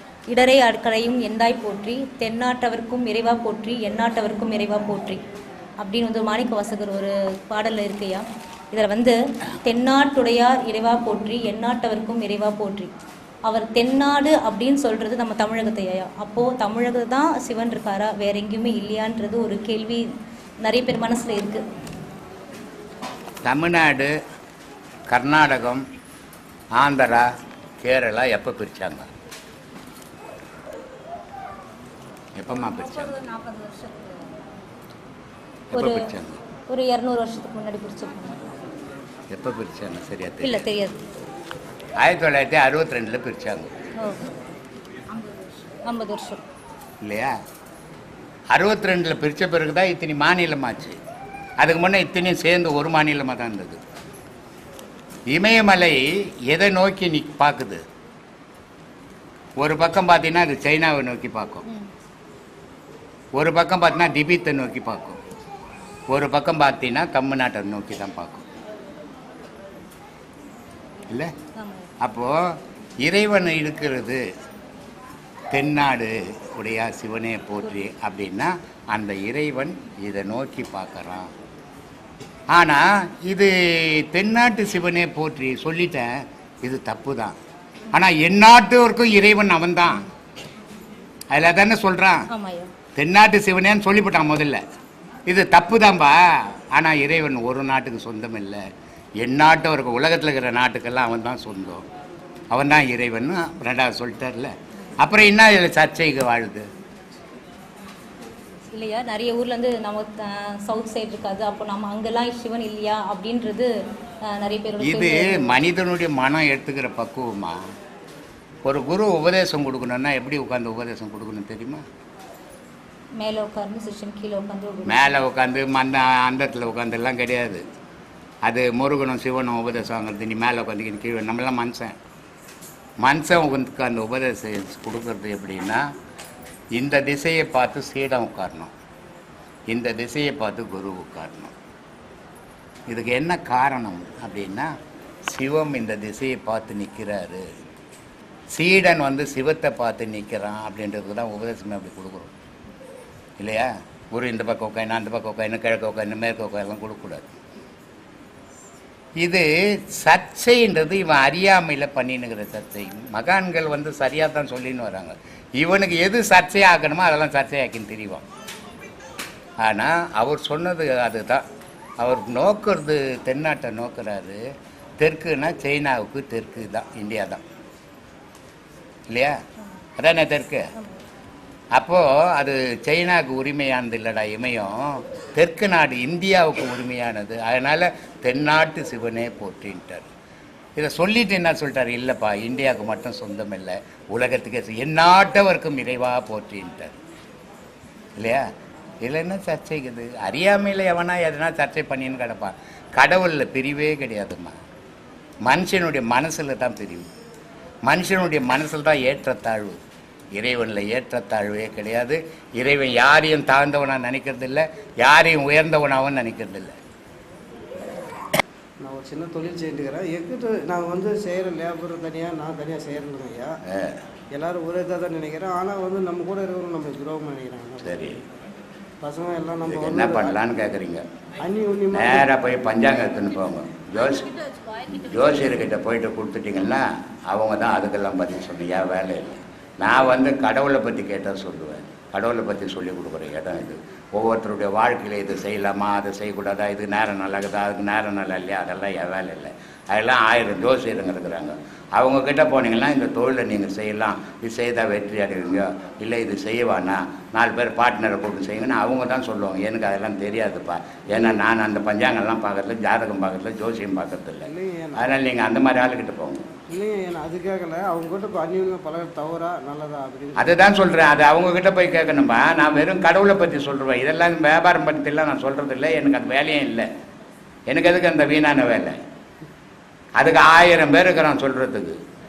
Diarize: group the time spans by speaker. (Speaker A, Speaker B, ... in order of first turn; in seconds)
Speaker A: 0.3-5.2, 5.8-12.9, 13.5-20.1, 20.6-21.6, 33.2-34.1, 35.7-36.1, 36.7-38.5, 40.4-41.0, 44.0-44.3, 45.1-46.4, 71.6-71.9, 92.3-92.7, 108.7-113.7, 114.2-115.5, 123.2-125.1
Speaker B: 23.4-24.1, 25.1-25.8, 26.8-27.3, 27.8-29.1, 32.4-33.2, 35.7-36.4, 39.3-40.6, 42.0-43.7, 47.0-47.3, 48.5-51.0, 51.6-53.8, 55.3-57.8, 59.6-61.6, 63.4-65.2, 66.1-68.5, 72.0-74.2, 75.5-81.3, 82.5-87.4, 87.9-90.1, 91.3-92.2, 93.0-94.6, 95.3-98.6, 99.2-101.9, 102.5-106.7, 114.8-117.6, 118.6-121.8, 124.9-127.6, 128.4-131.9, 133.0-135.8, 136.8-138.7, 139.7-141.5, 142.9-144.7, 145.3-147.4, 148.5-152.3, 153.4-157.3, 159.2-168.2, 169.6-171.4, 172.0-174.4, 175.0-177.4, 179.1-179.4, 180.0-180.7, 181.7-190.1, 190.8-197.0, 198.2-198.5, 199.0-204.6, 205.4-207.1, 207.9-209.8, 210.4-216.8, 223.7-224.0, 227.8-228.2, 229.7-231.0, 231.9-234.3, 234.9-266.4, 270.4-276.9, 277.7-279.0, 280.2-282.0
Speaker C: 218.8-223.6, 224.3-228.0, 229.0-230.4, 231.4-232.3, 264.4-265.2, 266.7-270.6